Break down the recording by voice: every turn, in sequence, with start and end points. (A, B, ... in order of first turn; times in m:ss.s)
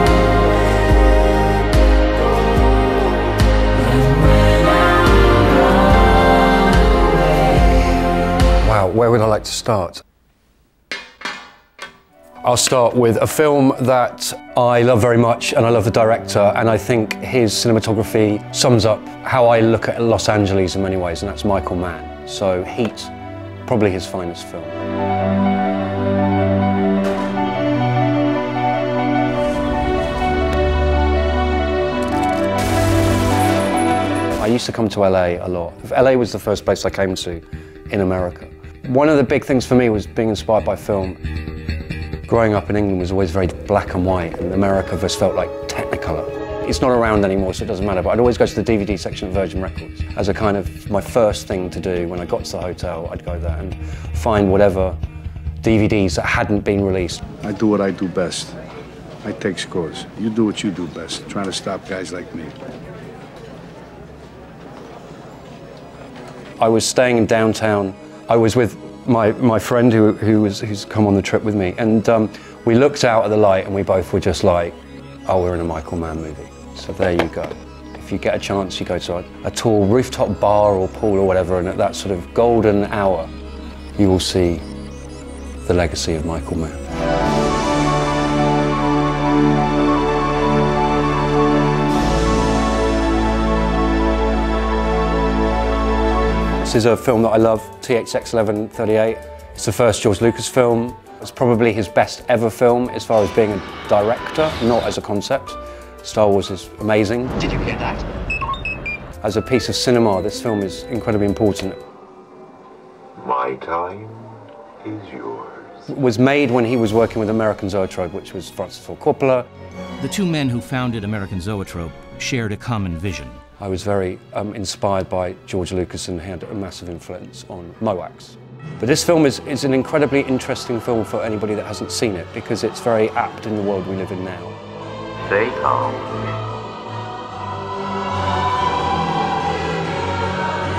0:08.6-0:10.0 A
0:12.4-0:23.1 A
0:23.6-0:24.8 A
0:34.4-0:41.2 A
0:42.3-0:55.0 A
0:55.6-0:57.2 A
0:57.4-0:58.5 B
0:59.2-1:02.5 B
1:06.6-1:23.3 A
1:24.0-1:24.7 A
1:25.6-1:26.8 A
1:36.6-1:47.6 A
1:49.2-1:51.8 A
1:53.2-1:55.8 C
1:55.9-1:59.5 A
2:00.0-2:03.4 D
2:03.6-2:14.6 A
2:15.2-2:16.3 C